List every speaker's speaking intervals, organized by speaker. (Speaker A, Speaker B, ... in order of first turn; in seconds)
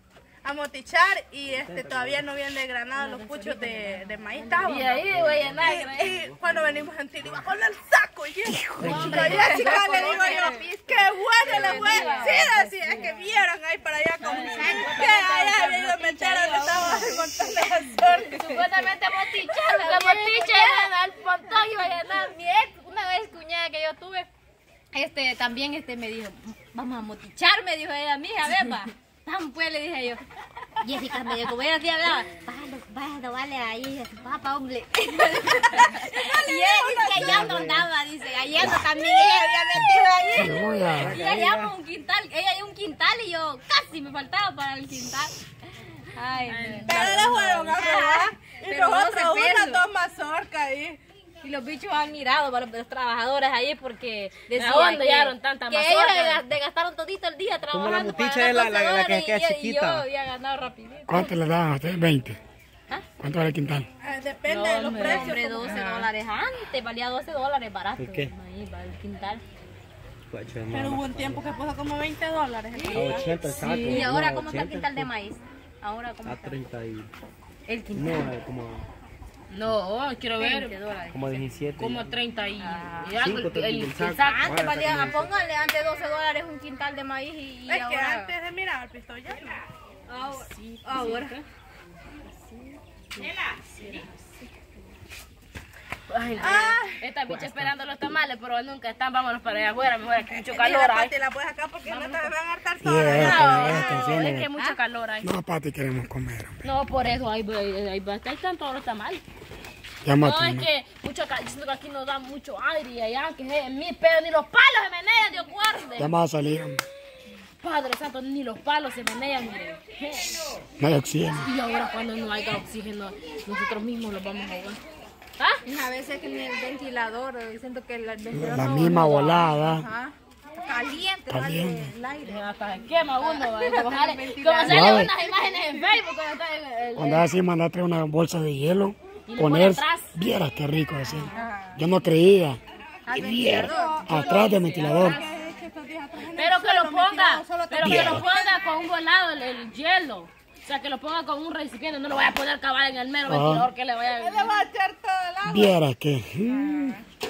Speaker A: 0.4-18.5, 35.8-37.4, 38.6-40.5, 46.9-51.0, 64.0-65.8, 70.7-73.4, 87.7-89.6, 96.4-97.1, 100.3-104.2, 135.2-135.9, 143.6-148.6, 154.1-155.8, 156.6-156.9
Speaker B: 1.5-2.3, 4.9-7.6, 8.8-9.7, 37.1-37.9, 41.0-41.8, 57.7-60.1, 68.0-68.3, 70.3-71.5, 72.9-75.1, 76.2-77.1, 77.9-78.9, 81.1-82.2, 83.2-85.3, 97.3-97.7
Speaker C: 2.9-5.1, 8.8-13.2, 14.2-17.5, 18.0-24.3, 24.9-30.2, 30.8-45.4, 46.1-49.8, 51.4-61.4, 64.8-69.4, 72.8-76.6, 77.7-78.3, 80.4-81.5, 82.6-83.2, 84.2-88.3, 90.1-91.3, 125.7-130.1, 130.7-132.4, 133.2-135.0, 141.3-141.8, 143.1-144.1
Speaker D: 4.6-6.2, 8.9-10.5, 11.4-13.1, 14.2-15.5, 16.7-17.0, 18.0-22.3, 46.5-47.6, 54.6-56.4, 64.5-66.1, 73.5-74.1, 79.5-80.7, 81.8-84.5, 90.3-91.4, 96.1-101.2, 101.9-102.3, 103.1-105.3, 106.6-109.2, 110.2-116.1, 117.6-120.4, 121.4-124.8, 132.2-137.3, 139.3-140.2, 144.1-145.2, 146.3-154.6
Speaker E: 8.7-9.1, 40.3-41.2, 61.1-62.4, 63.2-63.9, 102.8-104.5, 105.2-106.6, 110.0-110.7, 116.0-116.8, 120.8-121.5, 128.3-129.9, 131.3-131.9, 134.7-135.1, 137.0-145.2, 147.8-148.2, 153.3-153.7, 155.5-157.0